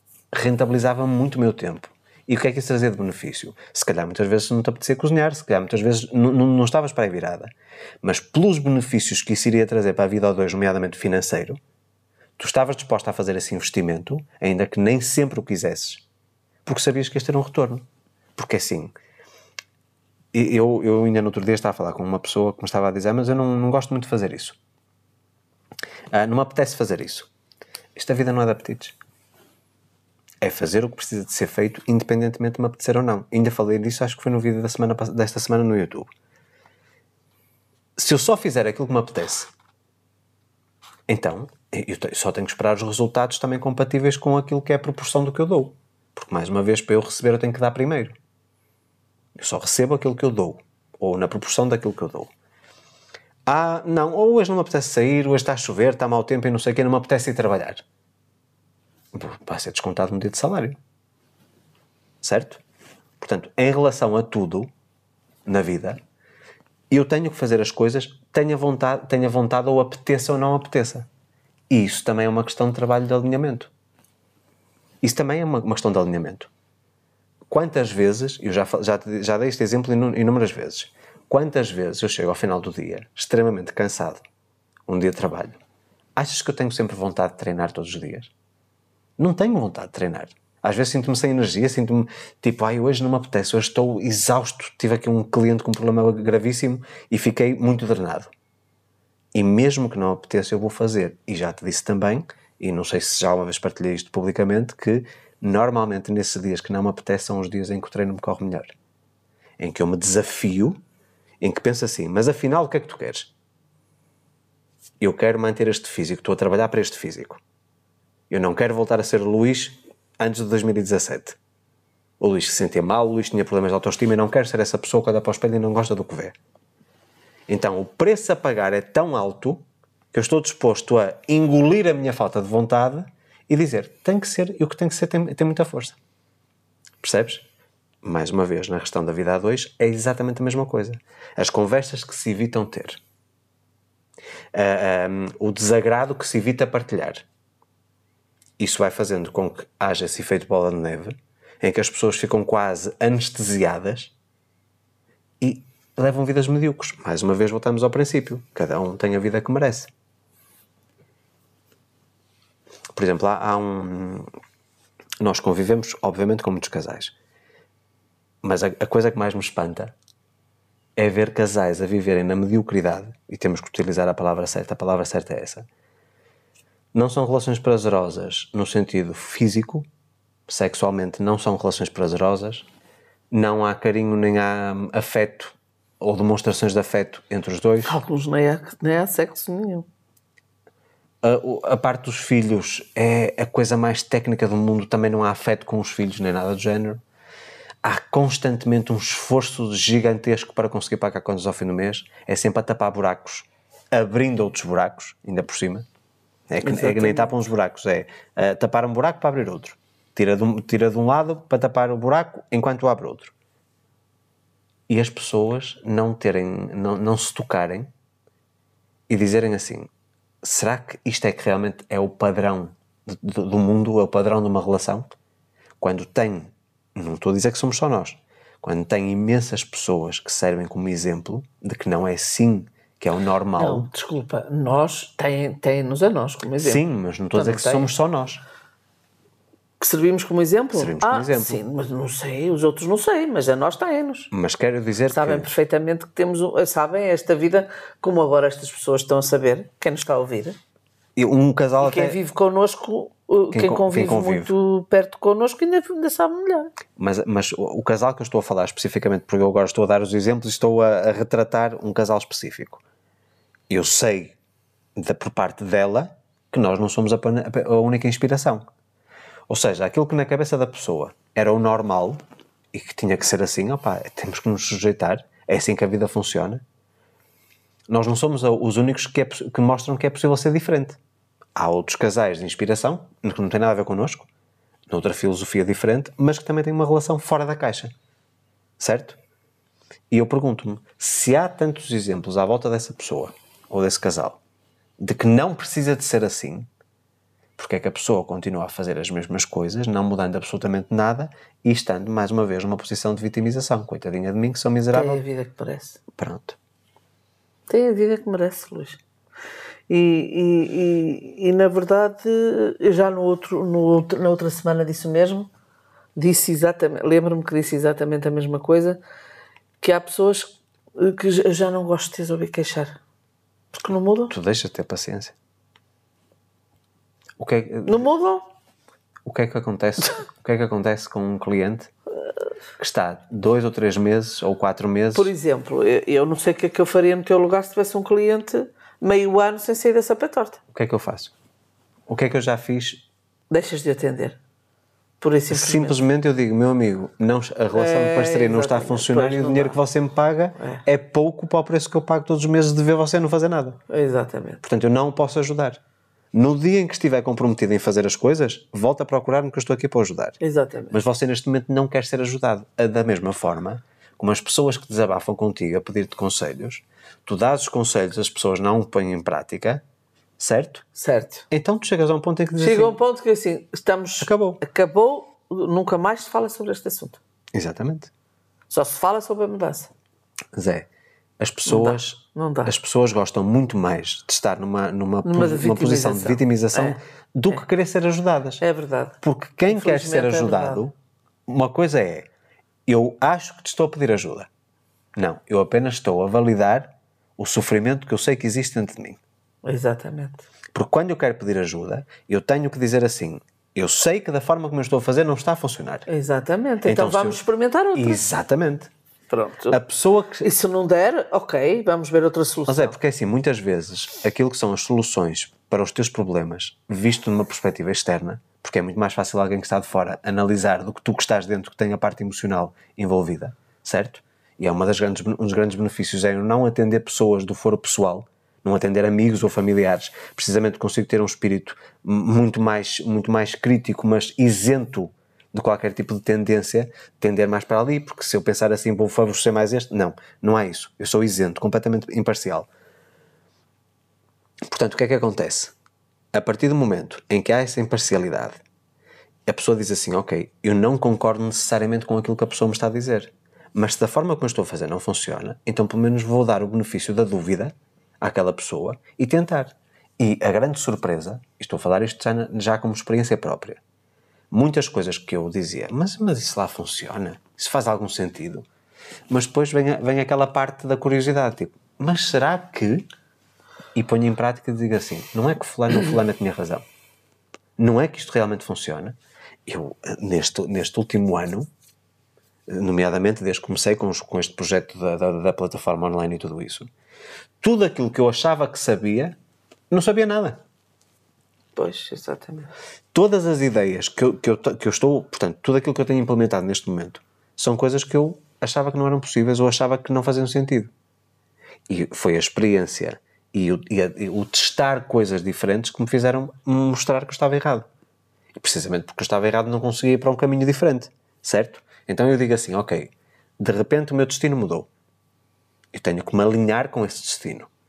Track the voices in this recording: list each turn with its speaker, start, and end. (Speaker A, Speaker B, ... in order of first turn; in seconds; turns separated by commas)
Speaker A: 0.3-7.5, Speaker A: 8.0-11.6, Speaker A: 12.4-16.0, Speaker A: 16.6-17.9, Speaker A: 18.4-18.9, Speaker A: 20.3-24.6, Speaker A: 26.1-27.3, Speaker A: 28.0-29.0, Speaker A: 30.4-36.1, Speaker A: 38.0-39.5, Speaker A: 41.1-48.2, Speaker A: 49.4-52.3, Speaker A: 53.5-57.8, Speaker A: 59.1-60.8, Speaker A: 62.2-62.6, Speaker A: 63.2-64.7, Speaker A: 65.5-66.0, Speaker A: 66.9-71.1, Speaker A: 71.7-73.7, Speaker A: 75.0-76.5, Speaker A: 77.5-84.2, Speaker A: 84.9-85.6, Speaker A: 86.2-88.3, Speaker A: 89.2-98.3, Speaker A: 99.3-108.7, Speaker A: 109.6-110.8, Speaker A: 111.4-113.3, Speaker A: 115.0-117.4, Speaker A: 118.3-121.4, Speaker A: 122.2-126.3, Speaker A: 127.5-136.0, Speaker A: 137.0-137.5, Speaker A: 138.0-143.0, Speaker A: 144.5-147.2, Speaker A: 148.6-154.1, Speaker A: 155.4-159.9, Speaker A: 162.9-164.3, Speaker A: 165.2-167.1, Speaker A: 168.4-169.9, Speaker A: 171.0-175.7, Speaker A: 176.9-179.9, Speaker A: 180.5-182.7, Speaker A: 183.3-187.9, Speaker B: 187.8-189.9, Speaker A: 191.2-197.0, Speaker A: 197.8-205.9, Speaker A: 206.5-213.3, Speaker B: 206.6-207.3, Speaker A: 214.9-217.9, Speaker A: 219.1-219.9, Speaker A: 220.4-225.1, Speaker A: 225.8-233.9, Speaker B: 233.6-236.8, Speaker A: 236.6-238.4, Speaker B: 237.3-237.9, Speaker B: 239.8-244.3, Speaker A: 240.7-241.6, Speaker A: 244.3-245.5, Speaker B: 245.1-250.6, Speaker A: 251.2-252.2, Speaker B: 251.8-256.7, Speaker A: 253.5-254.5, Speaker A: 257.0-262.8, Speaker A: 263.7-264.4, Speaker A: 265.0-268.7, Speaker A: 269.5-272.2, Speaker A: 272.7-276.6, Speaker A: 277.9-281.0, Speaker A: 281.6-284.3, Speaker A: 284.9-287.9, Speaker A: 288.8-289.2, Speaker A: 290.1-294.4, Speaker A: 295.0-296.7, Speaker A: 297.6-305.2, Speaker B: 304.9-306.0, Speaker A: 306.2-306.6, Speaker B: 307.7-309.0, Speaker B: 309.9-315.5, Speaker B: 316.2-319.0, Speaker B: 319.8-323.0, Speaker B: 323.7-324.3, Speaker A: 324.3-325.4, Speaker A: 327.4-328.0, Speaker B: 327.9-328.5, Speaker A: 329.2-331.9, Speaker A: 332.8-335.3, Speaker B: 335.1-340.6, Speaker A: 340.7-341.3, Speaker A: 342.1-343.0, Speaker B: 343.5-344.4, Speaker B: 345.2-346.0, Speaker A: 345.5-353.8, Speaker B: 347.7-349.8, Speaker B: 353.9-354.6, Speaker A: 354.6-355.8, Speaker A: 356.3-360.4, Speaker B: 360.4-361.0, Speaker A: 360.9-369.8, Speaker A: 370.4-370.9, Speaker B: 370.9-371.5, Speaker A: 371.5-373.0, Speaker B: 372.6-377.2, Speaker A: 374.2-374.6, Speaker A: 377.5-378.1, Speaker B: 378.7-379.9, Speaker A: 380.5-380.9, Speaker A: 381.4-388.6, Speaker B: 381.7-382.7, Speaker B: 385.2-387.0, Speaker B: 388.6-390.8, Speaker A: 389.2-390.9, Speaker A: 391.5-392.3, Speaker A: 392.9-394.5, Speaker A: 395.2-399.2, Speaker B: 399.6-400.4, Speaker A: 400.7-406.1, Speaker B: 406.1-408.2, Speaker A: 406.8-407.4, Speaker A: 407.9-408.9, Speaker B: 409.3-409.8, Speaker A: 409.7-410.5, Speaker B: 410.4-413.0, Speaker A: 412.7-442.7, Speaker A: 444.7-445.7, Speaker A: 446.3-448.6, Speaker A: 449.5-463.8, Speaker A: 464.5-468.7, Speaker A: 469.3-473.1, Speaker A: 473.9-476.8, Speaker A: 477.8-481.7, Speaker A: 482.7-486.9, Speaker A: 487.6-489.4, Speaker A: 489.9-490.6, Speaker B: 491.8-492.7, Speaker A: 493.1-500.9, Speaker A: 501.9-507.9, Speaker A: 508.6-514.9, Speaker A: 515.9-517.7